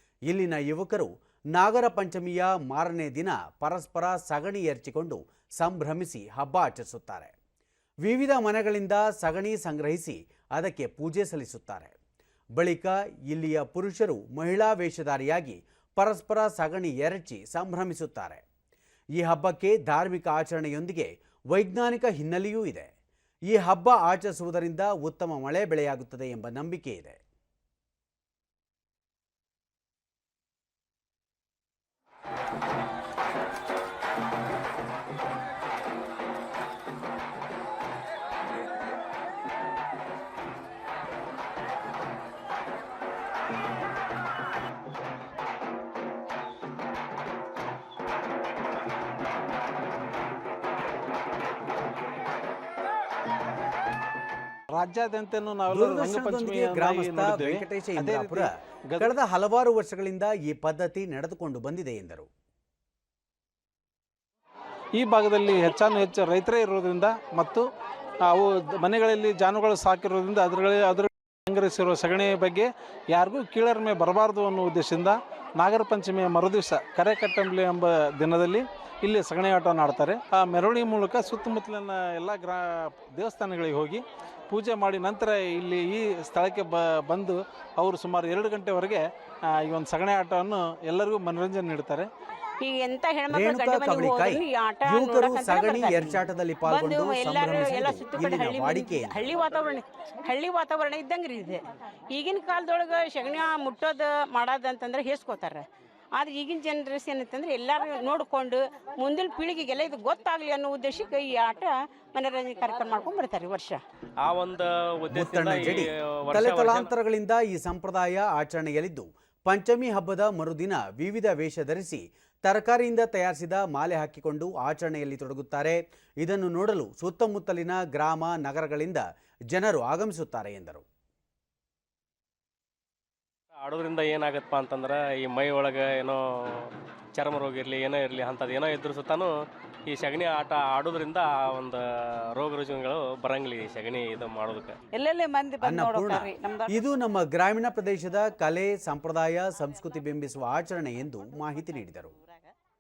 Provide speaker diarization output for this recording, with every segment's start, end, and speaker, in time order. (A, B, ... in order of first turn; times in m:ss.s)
0:00.3-0:07.3 A
0:08.0-0:12.0 A
0:12.6-0:18.4 A
0:19.2-0:22.9 A
0:23.5-0:27.2 A
0:54.7-0:59.2 B
0:55.7-1:02.3 A
1:05.0-1:07.7 B
1:08.2-1:32.1 B
1:32.6-1:41.6 C
1:33.3-1:39.3 A
1:42.1-1:45.6 C
1:46.2-1:53.8 C
1:54.2-1:56.9 D
1:55.1-2:10.8 A
2:13.6-2:19.3 D
2:19.9-2:24.8 D
2:24.9-2:26.9 E
2:25.6-2:32.1 A
2:31.3-2:32.5 E